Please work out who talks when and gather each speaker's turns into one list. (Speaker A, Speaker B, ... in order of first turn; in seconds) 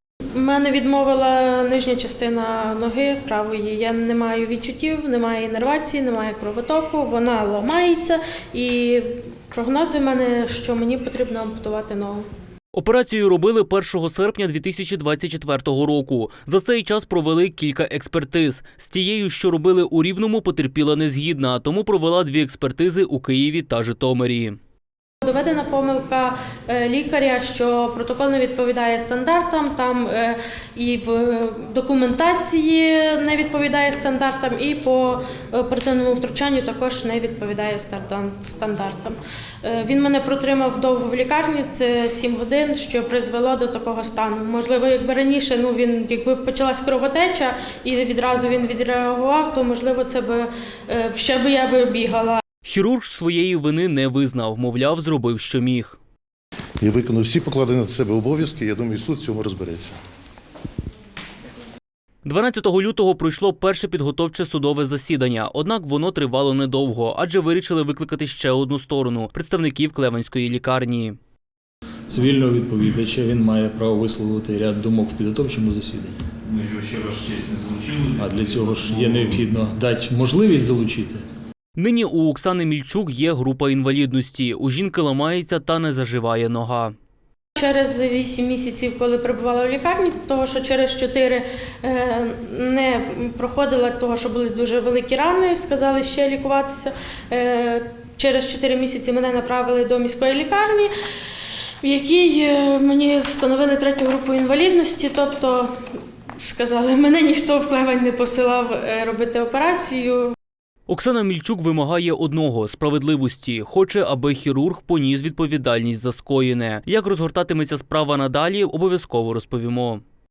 Speaker A: 0.3-12.3, 25.2-52.4, 87.6-100.9, 101.8-105.7, 106.4-110.3
Speaker B: 12.7-24.6, 52.6-56.0, 62.2-71.2, 81.8-86.9, 110.9-120.0
Speaker C: 56.8-60.0
Speaker D: 72.1-76.3, 78.2-81.2
Speaker E: 76.4-79.4